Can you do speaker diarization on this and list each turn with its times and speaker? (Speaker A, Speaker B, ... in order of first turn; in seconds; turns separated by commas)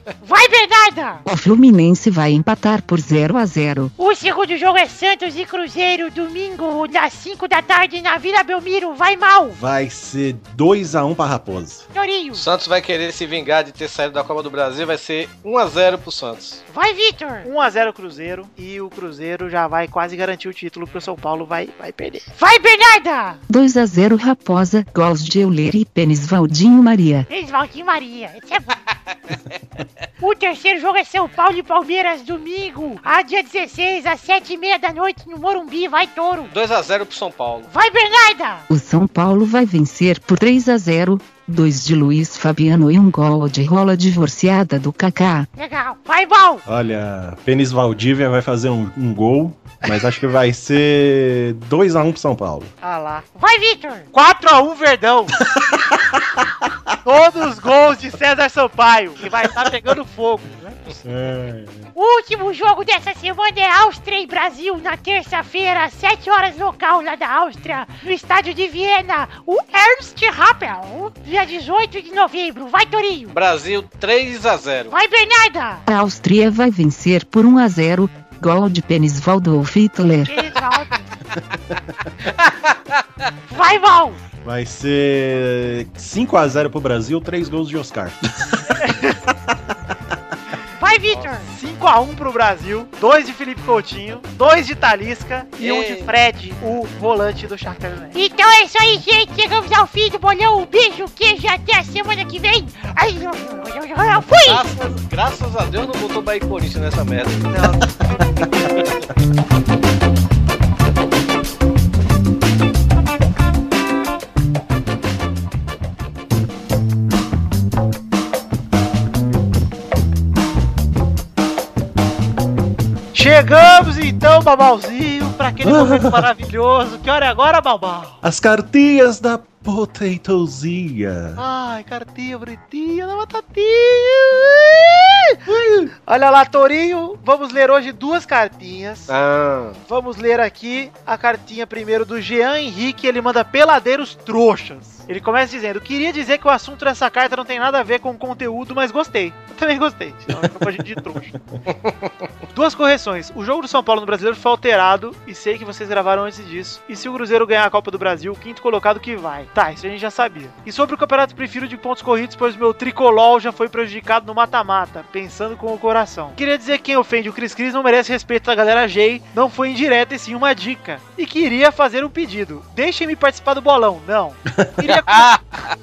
Speaker A: 0.2-1.2, Speaker B: 1.2-3.9, Speaker A: 4.0-9.6, Speaker C: 9.6-11.8, Speaker A: 11.9-12.4, Speaker D: 12.3-16.6, Speaker A: 16.7-17.5, Speaker E: 17.4-22.3, Speaker A: 22.4-23.4, Speaker B: 23.5-27.3, Speaker A: 27.3-28.7, Speaker A: 30.2-36.5, Speaker D: 36.5-37.7, Speaker A: 37.7-38.6, Speaker B: 38.7-45.5, Speaker A: 45.5-46.6, Speaker C: 46.6-52.7, Speaker E: 52.8-53.2, Speaker A: 53.3-54.1, Speaker E: 54.1-55.4, Speaker C: 55.5-56.7, Speaker E: 57.0-61.0, Speaker C: 61.0-61.9, Speaker A: 61.9-73.3, Speaker D: 73.3-74.9, Speaker A: 74.9-75.8, Speaker B: 75.9-80.3, Speaker A: 80.2-81.0, Speaker D: 82.4-83.0, Speaker A: 83.5-84.2, Speaker C: 84.4-88.8, Speaker E: 88.8-89.2, Speaker A: 90.8-91.5, Speaker E: 91.5-98.2, Speaker D: 95.6-96.1, Speaker A: 98.1-104.7, Speaker D: 104.4-107.5, Speaker E: 107.5-107.8, Speaker E: 123.1-128.2, Speaker C: 125.6-126.3, Speaker C: 128.2-131.4, Speaker E: 131.4-135.4, Speaker C: 135.5-135.9, Speaker E: 136.1-139.1, Speaker D: 139.1-139.8, Speaker E: 139.9-151.3, Speaker C: 150.3-150.7, Speaker E: 152.5-175.4, Speaker D: 175.1-175.4